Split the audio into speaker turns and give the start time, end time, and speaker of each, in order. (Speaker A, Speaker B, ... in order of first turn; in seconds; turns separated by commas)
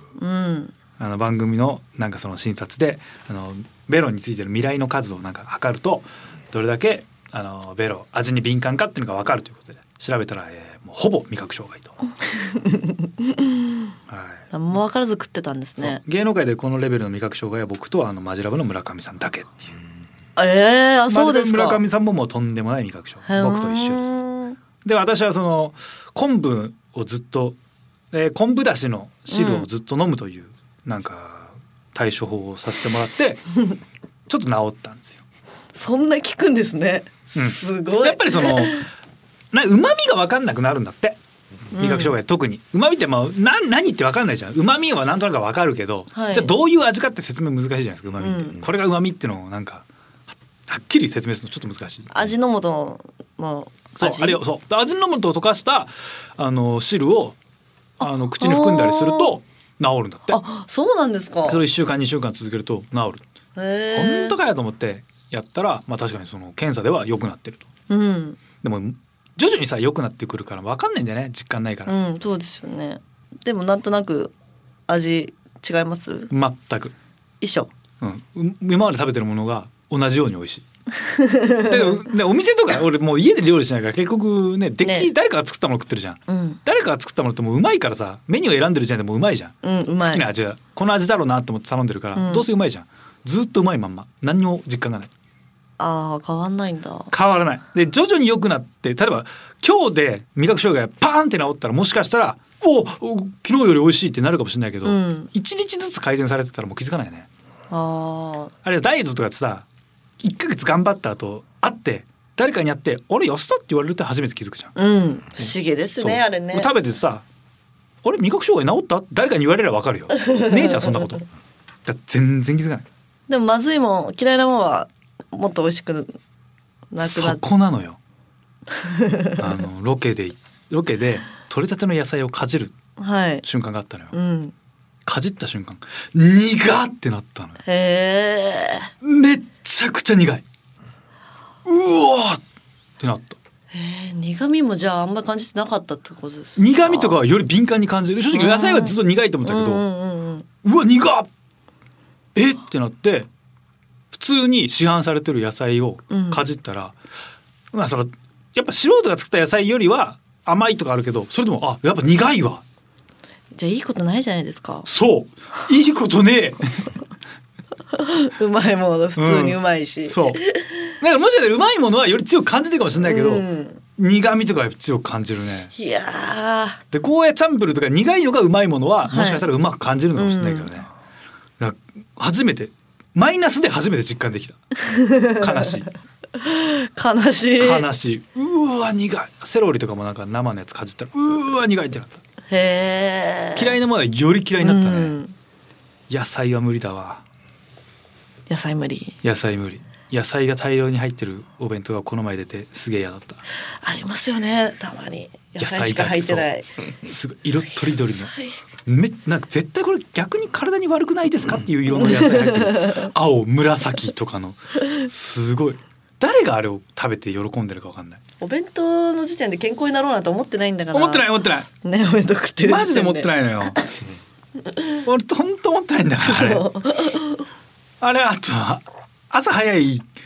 Speaker A: 0.2-0.7, Speaker B: 1.0-12.0, Speaker A: 12.3-13.9, Speaker B: 14.1-14.4, Speaker A: 14.5-16.0, Speaker B: 15.8-19.8, Speaker A: 20.4-21.8, Speaker B: 21.1-24.2, Speaker A: 23.3-24.6, Speaker B: 24.8-27.6, Speaker B: 28.1-33.5, Speaker A: 29.3-29.7, Speaker B: 34.3-35.2, Speaker A: 35.7-38.9, Speaker B: 37.4-38.8, Speaker B: 39.5-41.2, Speaker A: 41.7-42.1, Speaker B: 41.8-49.9, Speaker A: 46.1-46.5, Speaker A: 48.2-48.6, Speaker B: 50.7-52.1, Speaker A: 52.1-54.4, Speaker B: 54.0-57.4, Speaker B: 58.0-60.4, Speaker A: 58.4-59.4, Speaker A: 60.3-61.6, Speaker B: 61.5-63.2, Speaker A: 63.6-64.4, Speaker B: 63.9-67.7, Speaker A: 67.9-68.4, Speaker B: 68.6-71.9, Speaker A: 71.9-74.3, Speaker A: 74.9-76.3, Speaker B: 76.3-76.9, Speaker A: 77.4-77.7, Speaker B: 78.0-80.7, Speaker A: 81.0-82.0, Speaker B: 81.7-95.1, Speaker A: 84.8-85.1, Speaker A: 86.3-86.6, Speaker A: 89.6-90.2, Speaker A: 92.2-92.5, Speaker A: 95.8-97.1, Speaker B: 97.1-107.3, Speaker A: 104.8-105.3, Speaker A: 107.7-108.5, Speaker B: 108.6-109.7, Speaker B: 110.2-114.7, Speaker A: 114.8-116.7, Speaker B: 116.0-117.2, Speaker B: 118.0-121.2, Speaker A: 120.2-121.0, Speaker B: 121.8-122.9, Speaker A: 123.3-126.2, Speaker A: 126.9-127.4, Speaker B: 127.0-128.0, Speaker A: 128.8-129.4, Speaker B: 129.4-132.8, Speaker A: 133.0-133.4, Speaker B: 133.4-134.1, Speaker A: 134.1-134.5, Speaker B: 135.1-137.6, Speaker A: 137.7-138.9, Speaker B: 139.0-140.4, Speaker B: 141.7-142.4, Speaker B: 143.0-143.4, Speaker A: 143.7-147.2, Speaker B: 146.6-149.8, Speaker A: 148.3-150.5, Speaker B: 150.6-151.3, Speaker B: 152.3-153.3, Speaker B: 154.1-157.0, Speaker A: 156.1-156.4, Speaker B: 157.7-162.6, Speaker A: 163.6-164.9, Speaker B: 164.9-167.0, Speaker A: 167.9-170.9, Speaker B: 169.2-170.4, Speaker B: 171.0-175.7, Speaker A: 173.0-173.8, Speaker A: 175.7-176.8, Speaker B: 176.9-180.9, Speaker A: 179.1-179.4, Speaker A: 180.2-180.7, Speaker B: 181.6-184.6, Speaker A: 184.8-185.7, Speaker B: 185.3-185.9, Speaker A: 186.4-187.9, Speaker B: 187.6-192.2, Speaker A: 192.5-193.8, Speaker B: 193.6-195.2, Speaker A: 194.6-195.3, Speaker B: 196.1-197.2, Speaker A: 198.5-199.2, Speaker B: 199.2-203.4, Speaker A: 203.8-206.7, Speaker B: 205.6-206.5, Speaker B: 207.0-208.3, Speaker A: 208.0-208.6, Speaker B: 208.9-218.2, Speaker A: 212.0-213.1, Speaker A: 218.4-221.3, Speaker B: 220.9-221.7, Speaker A: 221.8-224.0, Speaker B: 222.6-223.8, Speaker B: 225.1-226.7, Speaker A: 226.2-227.4, Speaker B: 228.0-230.1